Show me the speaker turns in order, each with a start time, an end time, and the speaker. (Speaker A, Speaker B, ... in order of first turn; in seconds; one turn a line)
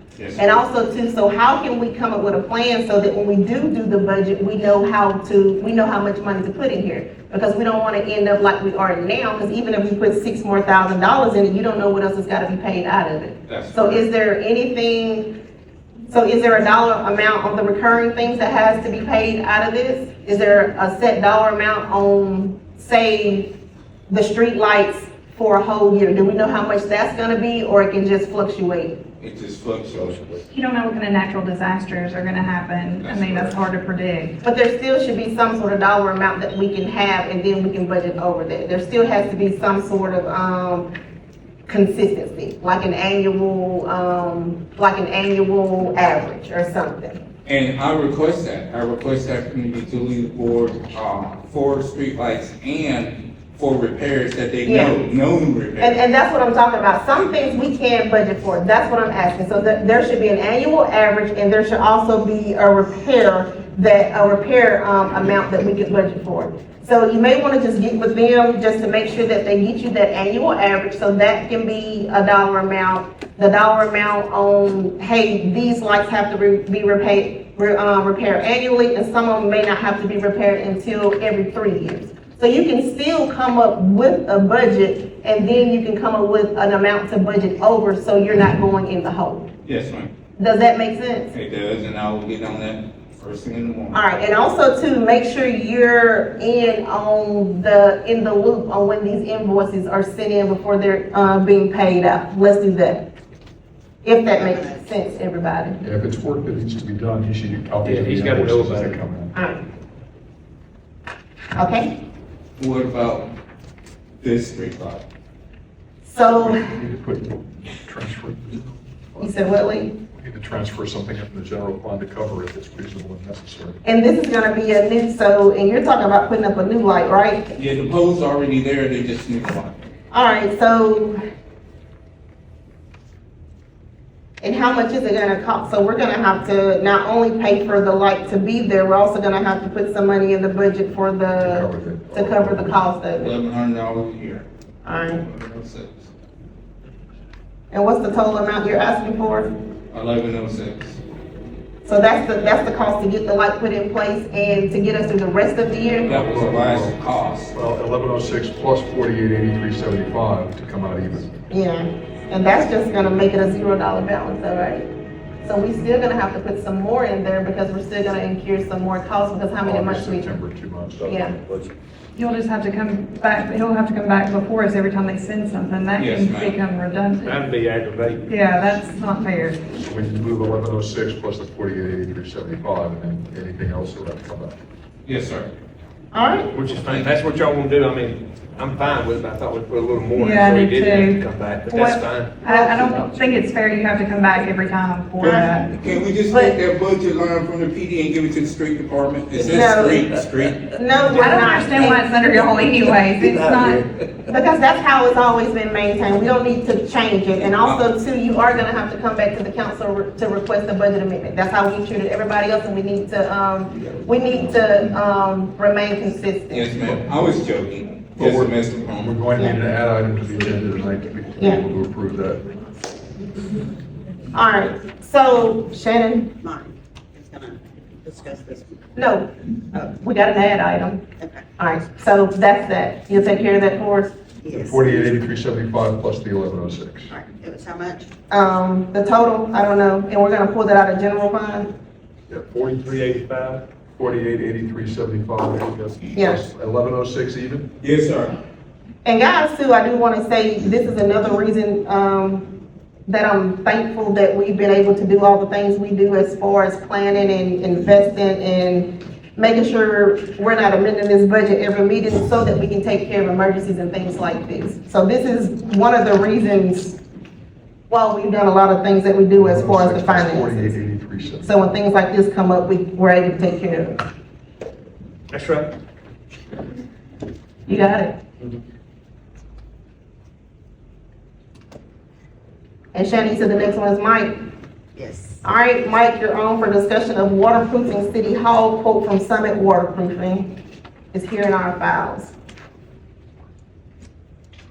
Speaker A: 0.2-0.6
Speaker B: 0.4-15.4
Speaker A: 13.5-14.0
Speaker B: 16.1-23.5
Speaker B: 24.1-29.0
Speaker A: 29.2-30.3
Speaker C: 29.9-30.4
Speaker D: 30.5-34.3
Speaker A: 33.0-33.6
Speaker B: 34.4-40.9
Speaker B: 41.7-47.2
Speaker A: 47.5-56.0
Speaker B: 54.6-55.0
Speaker B: 55.8-89.5
Speaker A: 89.7-90.1
Speaker B: 90.4-91.3
Speaker A: 91.3-94.0
Speaker B: 93.9-103.1
Speaker B: 104.0-105.8
Speaker E: 104.3-104.8
Speaker C: 105.8-109.3
Speaker F: 107.8-109.0
Speaker B: 109.3-109.6
Speaker B: 111.5-111.9
Speaker A: 112.6-113.3
Speaker A: 114.2-115.0
Speaker B: 116.0-116.7
Speaker C: 116.4-119.5
Speaker B: 119.2-119.9
Speaker C: 120.1-123.8
Speaker B: 123.8-127.5
Speaker A: 127.5-129.8
Speaker B: 130.1-131.2
Speaker B: 134.4-143.3
Speaker C: 141.4-142.8
Speaker A: 143.2-144.4
Speaker B: 144.8-145.2
Speaker A: 145.2-146.1
Speaker B: 147.7-149.5
Speaker A: 149.9-151.0
Speaker B: 151.8-156.1
Speaker A: 156.1-157.6
Speaker C: 156.1-161.3
Speaker B: 161.5-164.9
Speaker B: 165.4-170.3
Speaker C: 169.6-171.7
Speaker B: 171.1-171.4
Speaker D: 172.2-177.4
Speaker A: 176.0-176.6
Speaker F: 177.2-178.4
Speaker D: 178.3-179.6
Speaker C: 179.7-184.6
Speaker A: 185.1-185.5
Speaker B: 186.1-186.5
Speaker F: 186.5-193.0
Speaker D: 190.2-196.6
Speaker A: 195.2-200.8
Speaker B: 195.2-195.5
Speaker B: 199.5-200.0
Speaker B: 200.7-202.1
Speaker F: 201.1-201.9
Speaker D: 201.1-203.8
Speaker F: 203.0-204.2
Speaker B: 204.3-216.8
Speaker C: 213.8-214.7
Speaker A: 216.5-219.2
Speaker C: 216.8-217.3
Speaker C: 218.2-222.4
Speaker B: 221.4-221.6
Speaker B: 224.3-226.3
Speaker E: 226.4-228.9
Speaker B: 228.9-229.3
Speaker B: 229.9-231.0
Speaker E: 231.2-231.4
Speaker B: 231.6-234.1
Speaker E: 234.4-235.1
Speaker C: 234.5-237.1
Speaker E: 237.1-238.1
Speaker B: 238.3-241.7
Speaker F: 242.5-243.6
Speaker C: 243.9-247.7
Speaker B: 246.1-246.4
Speaker A: 247.8-248.4
Speaker B: 249.1-252.5
Speaker B: 253.1-267.0
Speaker B: 267.9-270.8
Speaker C: 269.3-271.6
Speaker B: 271.4-274.0
Speaker F: 275.3-275.7
Speaker B: 277.7-278.2
Speaker B: 282.9-284.3
Speaker E: 285.0-285.4
Speaker B: 285.4-290.5
Speaker B: 291.1-292.4